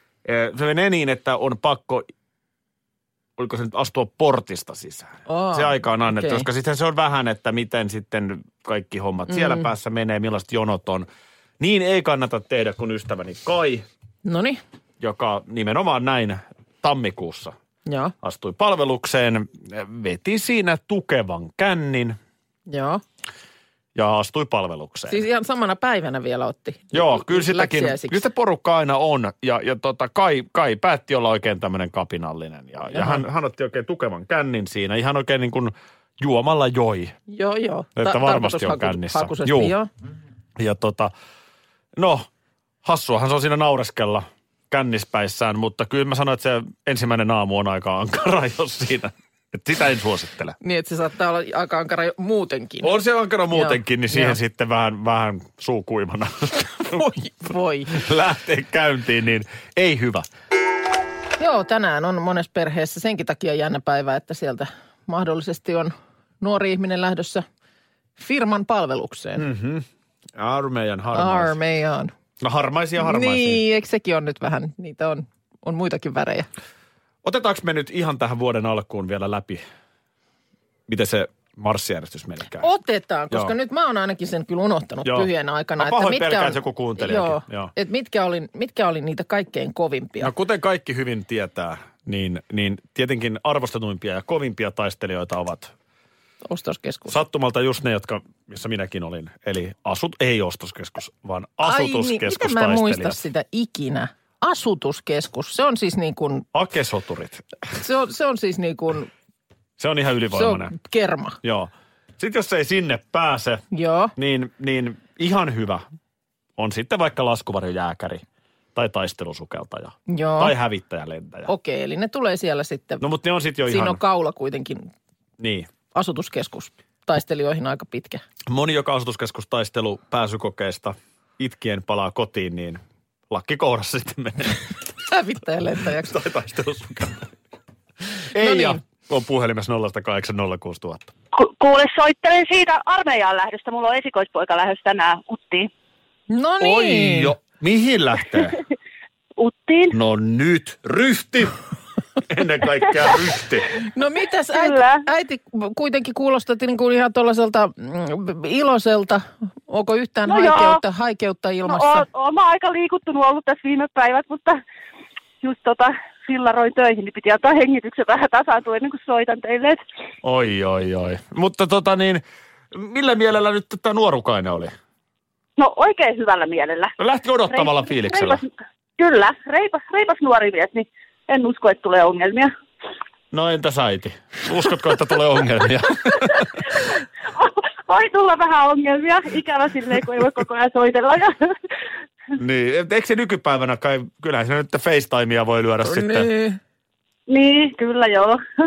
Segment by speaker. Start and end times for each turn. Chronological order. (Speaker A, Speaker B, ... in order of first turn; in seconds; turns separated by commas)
Speaker A: 0.2-2.1, Speaker A: 3.4-11.1, Speaker B: 5.2-6.5, Speaker B: 9.3-9.6, Speaker A: 11.6-13.8, Speaker B: 14.2-14.6, Speaker A: 15.0-17.5, Speaker B: 17.9-18.1, Speaker A: 18.2-22.2, Speaker B: 22.7-23.0, Speaker A: 23.9-25.2, Speaker B: 25.1-28.2, Speaker A: 26.9-37.2, Speaker B: 32.9-33.2, Speaker B: 37.3-39.9, Speaker A: 38.0-39.7, Speaker A: 40.6-41.1, Speaker A: 42.0-42.3, Speaker A: 42.8-50.5, Speaker B: 50.6-52.9, Speaker A: 52.8-57.1, Speaker B: 53.5-54.4, Speaker B: 56.9-58.0, Speaker A: 57.9-60.3, Speaker B: 61.4-67.4, Speaker B: 68.2-69.5, Speaker A: 69.4-71.5, Speaker B: 71.1-72.1, Speaker A: 72.4-73.6, Speaker B: 73.0-76.5, Speaker A: 77.2-79.6, Speaker A: 80.9-82.7, Speaker B: 82.6-90.3, Speaker A: 85.0-87.7, Speaker A: 90.2-95.7, Speaker B: 96.4-97.2, Speaker A: 97.1-103.2, Speaker B: 101.6-106.5, Speaker A: 106.5-107.4, Speaker B: 107.8-109.1, Speaker A: 109.8-110.7, Speaker B: 110.3-111.4, Speaker A: 111.4-113.6, Speaker B: 113.7-114.1, Speaker A: 114.2-115.8, Speaker A: 116.6-118.2, Speaker A: 118.7-121.5, Speaker B: 120.1-120.5, Speaker B: 121.5-123.0, Speaker A: 123.0-124.0, Speaker B: 123.7-124.9, Speaker A: 125.4-125.7, Speaker B: 125.9-128.2, Speaker A: 128.5-134.6, Speaker B: 135.1-136.2, Speaker A: 136.0-137.3, Speaker A: 138.3-141.1, Speaker B: 138.4-138.8, Speaker C: 141.3-145.7, Speaker B: 146.3-147.3, Speaker A: 146.6-148.6, Speaker C: 149.4-149.9, Speaker A: 149.9-151.6, Speaker A: 152.2-153.7, Speaker B: 153.9-162.1, Speaker C: 154.5-155.0, Speaker C: 160.3-160.8, Speaker C: 161.7-164.6, Speaker C: 165.4-169.8, Speaker A: 170.2-174.7, Speaker C: 175.6-176.9, Speaker A: 177.0-178.4, Speaker C: 177.5-182.5, Speaker A: 183.3-186.6, Speaker C: 187.3-191.5, Speaker A: 192.3-196.3, Speaker B: 195.8-196.6, Speaker C: 197.3-198.4